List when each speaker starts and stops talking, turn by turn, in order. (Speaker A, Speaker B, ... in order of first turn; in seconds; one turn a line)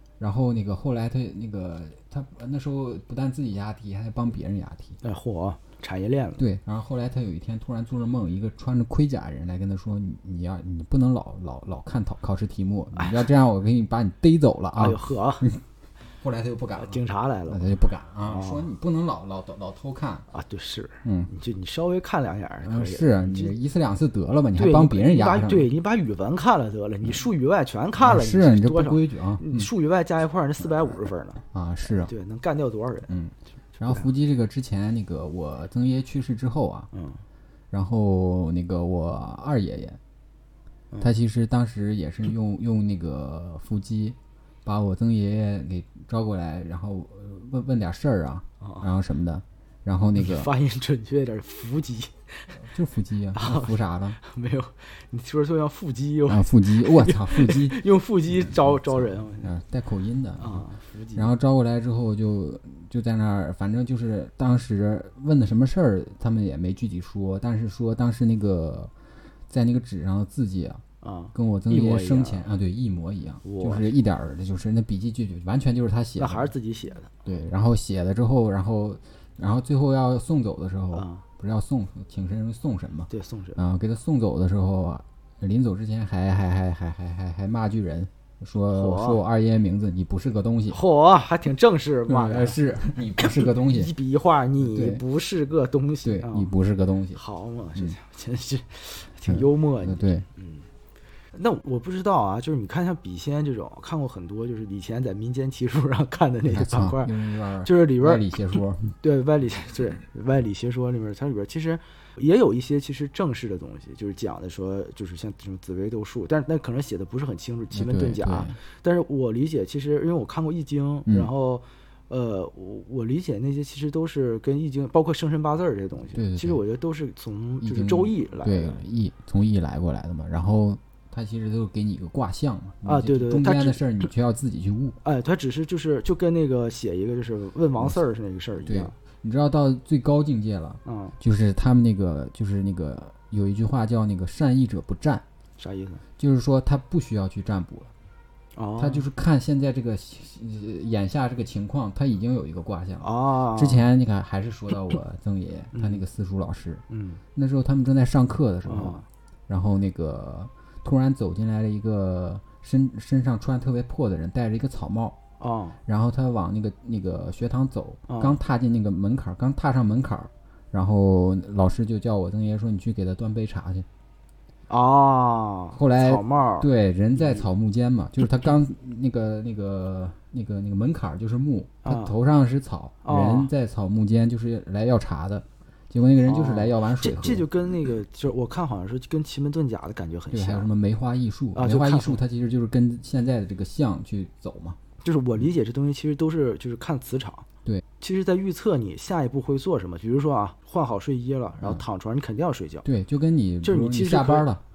Speaker A: 0.2-5.0
Speaker B: 5.0-6.4
Speaker A: 6.4-15.6
Speaker B: 12.9-13.2
Speaker B: 14.8-15.5
Speaker A: 16.2-20.3
Speaker B: 16.8-18.7
Speaker B: 20.3-23.5
Speaker A: 21.0-21.3
Speaker A: 22.6-25.7
Speaker B: 24.6-33.1
Speaker A: 28.0-29.7
Speaker A: 31.5-32.1
Speaker A: 33.1-36.9
Speaker B: 36.9-37.2
Speaker A: 37.7-40.0
Speaker A: 41.0-50.5
Speaker B: 48.6-48.9
Speaker B: 50.2-52.6
Speaker A: 52.6-54.2
Speaker B: 53.4-59.5
Speaker A: 56.3-57.8
Speaker A: 58.4-68.9
Speaker B: 60.4-61.3
Speaker A: 69.5-76.5
Speaker B: 71.0-72.5
Speaker B: 73.4-74.0
Speaker B: 76.2-77.1
Speaker A: 77.2-90.8
Speaker B: 80.9-81.2
Speaker B: 83.1-83.6
Speaker B: 88.7-89.2
Speaker B: 90.7-92.6
Speaker A: 92.1-93.9
Speaker B: 93.2-96.5
Speaker A: 94.6-95.0
Speaker A: 96.0-97.2
Speaker B: 97.1-100.7
Speaker A: 99.3-100.3
Speaker B: 101.3-108.4
Speaker A: 106.5-108.9
Speaker B: 109.0-128.8
Speaker A: 117.7-118.6
Speaker A: 126.2-126.6
Speaker A: 127.6-135.0
Speaker B: 132.8-133.8
Speaker B: 135.0-139.0
Speaker A: 138.6-145.2
Speaker B: 140.8-141.2
Speaker B: 145.6-146.0
Speaker A: 146.2-147.9
Speaker B: 148.6-149.1
Speaker A: 148.8-156.8
Speaker B: 153.0-153.9
Speaker B: 155.7-156.0
Speaker B: 156.9-157.2
Speaker A: 157.3-165.2
Speaker B: 158.7-159.1
Speaker B: 165.4-165.8
Speaker A: 165.9-173.9
Speaker B: 168.1-168.4
Speaker B: 174.7-177.4
Speaker A: 175.8-187.5
Speaker B: 181.8-182.2
Speaker B: 183.0-183.5
Speaker B: 186.3-190.7
Speaker A: 190.3-194.8
Speaker B: 191.6-192.2
Speaker B: 195.0-197.5
Speaker B: 198.0-202.9
Speaker A: 202.8-204.6
Speaker B: 203.6-204.5